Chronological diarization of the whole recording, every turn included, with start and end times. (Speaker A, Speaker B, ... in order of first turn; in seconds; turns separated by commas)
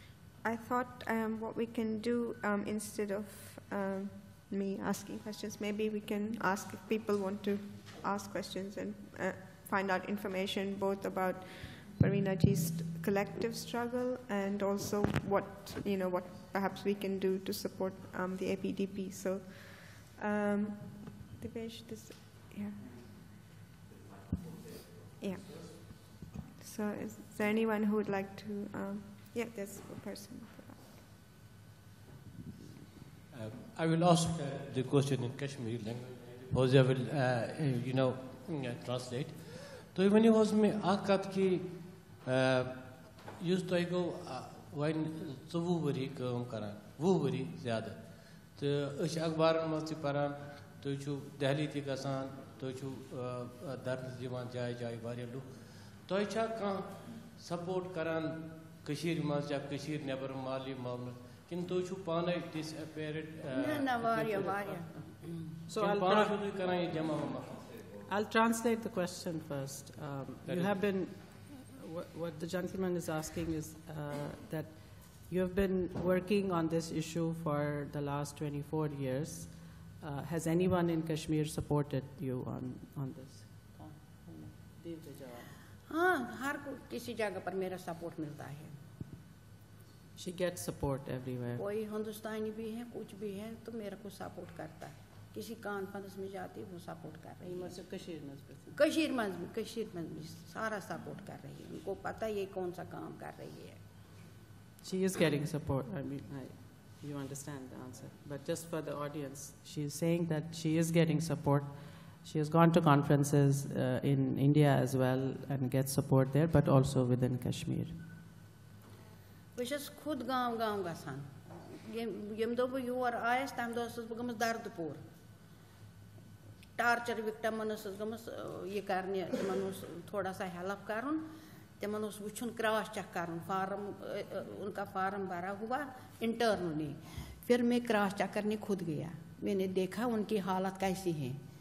Speaker A: 0.4-23.0, Speaker A: 25.2-30.9, Speaker B: 33.3-64.8, Speaker C: 63.5-65.4, Speaker D: 65.7-66.4, Speaker B: 65.7-67.9, Speaker D: 68.0-85.5, Speaker B: 70.4-70.8, Speaker C: 85.9-88.8, Speaker D: 90.2-91.6, Speaker C: 91.5-97.8, Speaker D: 97.4-98.8, Speaker C: 98.7-103.8, Speaker D: 104.8-118.0, Speaker C: 119.5-125.0, Speaker C: 126.8-141.4